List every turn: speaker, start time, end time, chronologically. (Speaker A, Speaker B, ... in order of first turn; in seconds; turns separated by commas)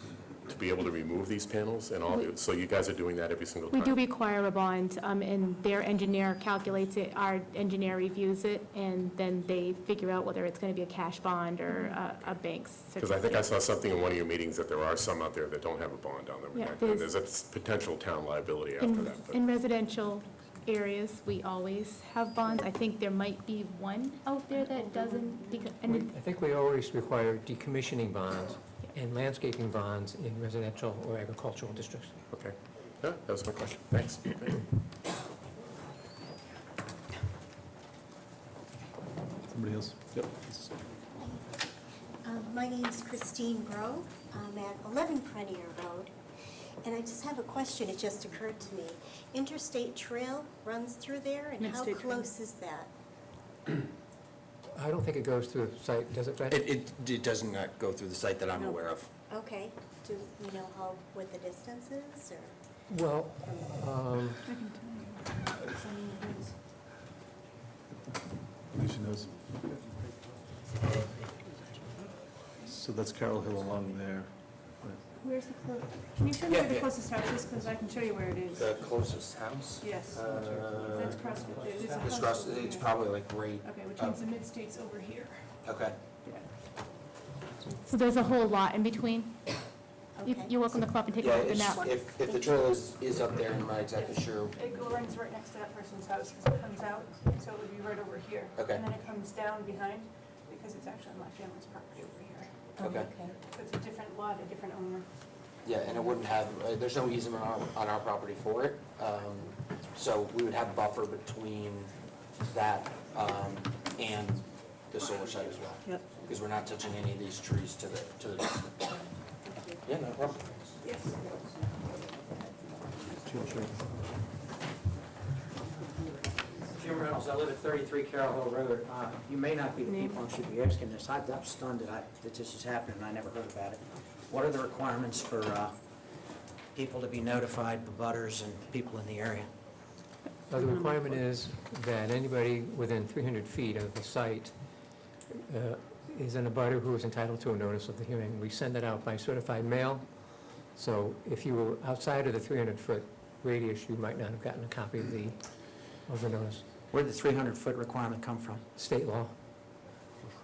Speaker A: 0.5-4.0, Speaker B: 3.7-13.6, Speaker A: 13.0-19.5, Speaker B: 16.5-17.1, Speaker B: 18.8-26.1, Speaker C: 25.8-32.1, Speaker A: 32.3-34.7, Speaker D: 39.5-40.8, Speaker E: 42.2-46.1, Speaker E: 46.8-52.9, Speaker F: 51.6-52.2, Speaker C: 54.7-56.6, Speaker G: 56.5-59.1, Speaker E: 59.3-62.5, Speaker C: 62.9-64.4, Speaker F: 64.4-66.5, Speaker D: 68.7-69.4, Speaker D: 72.7-75.0, Speaker F: 75.2-78.6, Speaker G: 76.5-76.9, Speaker G: 78.5-84.2, Speaker F: 79.8-80.2, Speaker F: 80.9-82.8, Speaker F: 83.6-85.4, Speaker G: 85.6-86.0, Speaker B: 87.8-89.5, Speaker E: 90.2-90.7, Speaker B: 90.2-92.6, Speaker G: 91.2-94.5, Speaker F: 91.6-92.0, Speaker F: 93.9-102.5, Speaker G: 98.6-98.8, Speaker G: 102.8-103.1, Speaker E: 102.8-103.3, Speaker F: 103.4-105.0, Speaker G: 105.6-111.9, Speaker G: 112.4-118.9, Speaker E: 119.5-119.8, Speaker G: 119.8-120.8, Speaker F: 120.8-121.2, Speaker D: 123.3-123.7, Speaker H: 126.7-135.8, Speaker H: 136.7-139.5, Speaker C: 140.5-144.6, Speaker C: 145.3-156.7, Speaker H: 156.9-158.6, Speaker C: 158.8-159.3